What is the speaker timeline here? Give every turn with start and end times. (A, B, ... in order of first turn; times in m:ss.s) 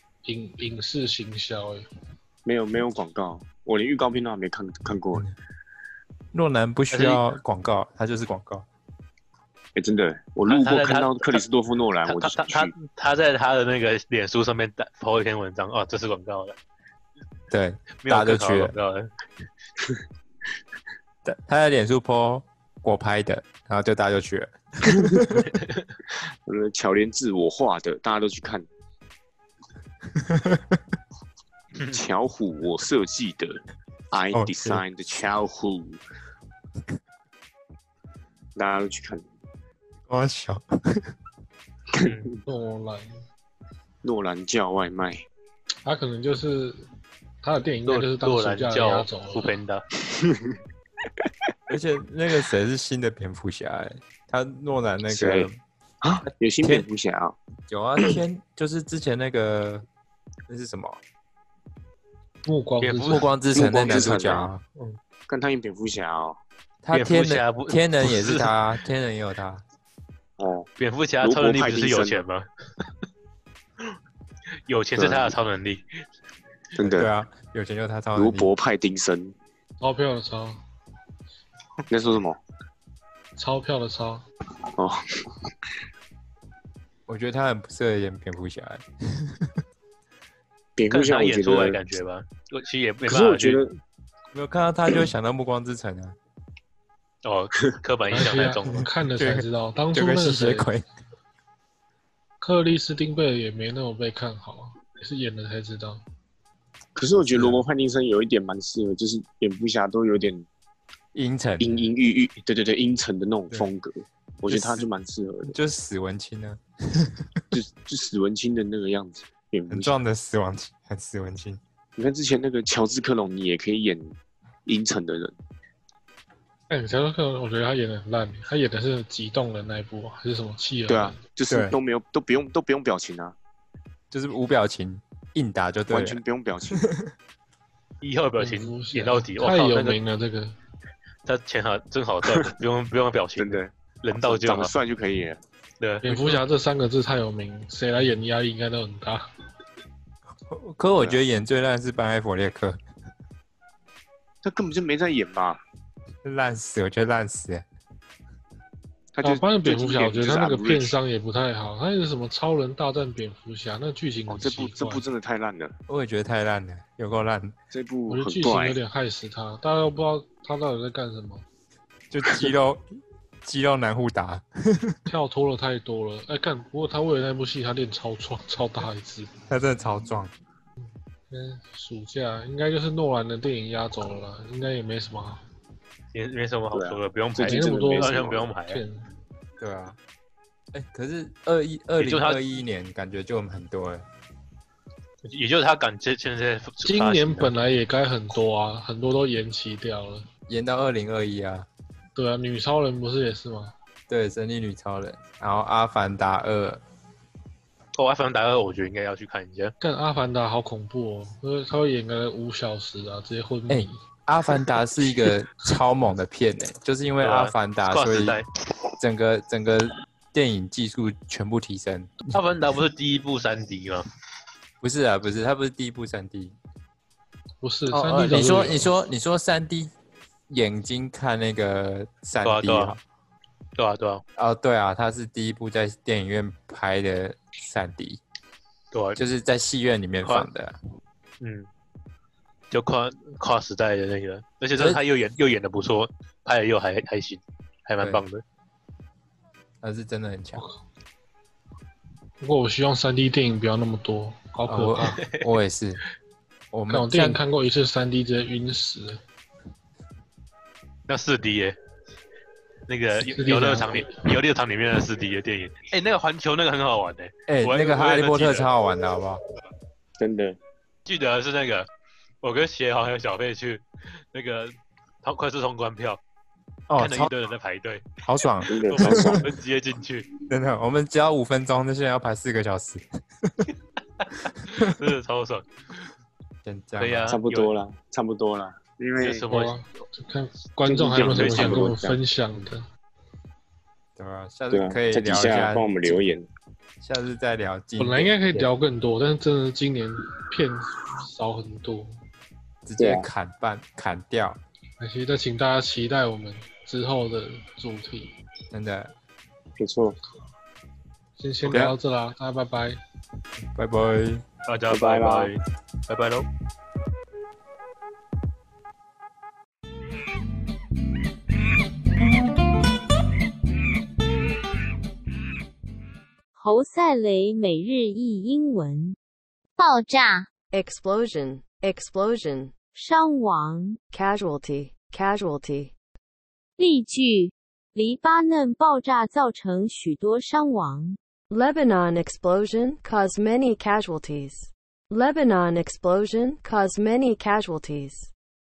0:00.2-0:01.8 A
0:02.4-0:05.2 B
0:06.3-0:08.6 C
0:06.9-0:07.2 D
0:09.7-0:12.7 B
0:10.4-0:11.4 D
0:12.0-0:16.6 D
0:17.5-0:18.7 C
0:18.0-0:19.1 D
0:21.2-0:25.5 C
0:24.8-0:25.3 B
0:25.4-0:25.9 D
0:26.4-0:28.7 B
0:30.1-0:30.8 C
0:31.8-0:33.6 B
0:34.1-0:36.0 B
0:34.3-0:34.8 C
0:38.6-0:39.2 B
0:40.1-0:41.1 C
0:41.9-0:42.4 B
0:42.0-0:42.3 D
0:42.4-0:43.1 A
0:44.0-0:45.2 B
0:45.8-0:46.8 A
0:47.4-0:49.5 A
0:47.9-0:49.8 D
0:50.1-0:50.6 B
0:51.7-0:55.6 C
0:55.1-0:55.5 B
0:56.0-0:57.4 B
0:56.6-0:56.9 C
0:57.7-0:59.9 C
1:00.5-1:01.0 C
1:02.4-1:05.0 A
1:02.8-1:03.2 D
1:03.1-1:04.6 C
1:03.5-1:04.5 B
1:05.3-1:06.4 B
1:06.8-1:09.6 C
1:06.9-1:08.5 D
1:10.4-1:10.7 B
1:10.8-1:12.5 D
1:11.2-1:12.2 B
1:14.7-1:15.8 D
1:15.0-1:15.4 B
1:16.8-1:17.1 B
1:16.8-1:18.5 C
1:18.2-1:19.3 B
1:19.8-1:20.6 A
1:21.9-1:22.4 B
1:23.4-1:24.2 A
1:27.1-1:29.5 C
1:30.8-1:31.8 B
1:30.9-1:33.6 D
1:33.0-1:33.8 B
1:34.3-1:36.2 C
1:37.2-1:38.8 D
1:38.1-1:40.7 A
1:38.7-1:40.8 C
1:42.4-1:46.0 A
1:46.9-1:50.5 B
1:47.2-1:47.6 C
1:51.1-1:51.9 C
1:51.6-1:55.5 B
1:54.5-1:54.8 C
1:55.4-1:57.4 C
1:57.5-2:00.0 B
1:59.7-2:01.6 C
2:02.0-2:05.3 B
2:06.7-2:11.2 A
2:10.9-2:13.3 B
2:11.5-2:11.8 C
2:14.1-2:16.2 C
2:15.9-2:16.9 B
2:16.8-2:17.0 C
2:18.0-2:20.0 D
2:18.4-2:20.5 A
2:21.2-2:24.7 D
2:23.4-2:25.4 B
2:25.8-2:26.4 D
2:26.0-2:29.2 A
2:30.5-2:32.8 C
2:34.4-2:35.6 B
2:36.2-2:37.6 C
2:39.1-2:40.9 B
2:39.2-2:45.0 A
2:44.3-2:45.8 B
2:45.9-2:47.5 C
2:47.7-2:48.8 B
2:48.1-2:51.4 A
2:52.1-2:52.8 C
2:53.4-2:55.0 C
2:55.1-2:59.3 A
2:59.5-3:00.3 C
3:01.3-3:05.4 A
3:06.1-3:08.8 D
3:06.7-3:08.5 B
3:07.4-3:09.0 A
3:09.6-3:10.0 C
3:10.7-3:14.0 C
3:12.0-3:12.4 D
3:15.2-3:17.5 D
3:16.8-3:20.2 A
3:20.5-3:21.7 C
3:22.1-3:23.7 A
3:24.1-3:26.8 C
3:27.9-3:29.7 D
3:29.8-3:34.0 A
3:33.7-3:38.4 C
3:37.2-3:38.4 D
3:39.0-3:42.1 C
3:42.3-3:44.1 D
3:44.8-3:46.6 C
3:47.6-3:48.9 A
3:47.9-3:49.9 C
3:50.5-3:53.0 C
3:52.4-3:53.0 D
3:53.8-3:54.2 D
3:54.4-3:58.2 C
3:58.9-3:59.2 D
3:59.2-4:00.7 C
4:01.4-4:01.7 D
4:02.7-4:08.4 D
4:09.8-4:10.6 C
4:12.4-4:15.2 A
4:14.7-4:16.0 C
4:16.7-4:17.4 C
4:16.9-4:19.2 A
4:21.1-4:21.8 D
4:22.9-4:28.7 D
4:23.2-4:24.1 A
4:27.5-4:29.4 C
4:30.2-4:30.6 B
4:31.0-4:31.9 D
4:32.4-4:36.2 D
4:36.9-4:37.3 C
4:37.0-4:38.1 D
4:38.2-4:39.5 C
4:38.6-4:39.4 B
4:38.8-4:40.3 D
4:40.5-4:43.6 C
4:44.2-4:45.7 D
4:46.6-4:47.4 C
4:47.0-4:47.7 D
4:47.3-4:49.4 B
4:49.2-4:49.8 D
4:49.5-4:52.8 A
4:50.8-4:52.2 B
4:51.2-4:51.9 D
4:54.2-4:56.2 C
4:54.7-4:56.5 B
4:57.0-4:58.7 C
4:58.0-5:02.1 A
5:02.8-5:04.6 C
5:03.0-5:03.2 B
5:05.0-5:08.3 A
5:08.7-5:09.1 C
5:09.8-5:10.2 B
5:11.4-5:13.0 A
5:11.6-5:11.9 B
5:13.7-5:14.4 C
5:14.7-5:16.5 D
5:14.9-5:15.5 B
5:26.6-5:29.2 E
5:29.8-5:30.5 E
5:30.7-5:32.7 F
5:32.9-5:34.0 E
5:34.1-5:35.9 F
5:36.8-5:41.2 E
5:41.5-5:48.3 F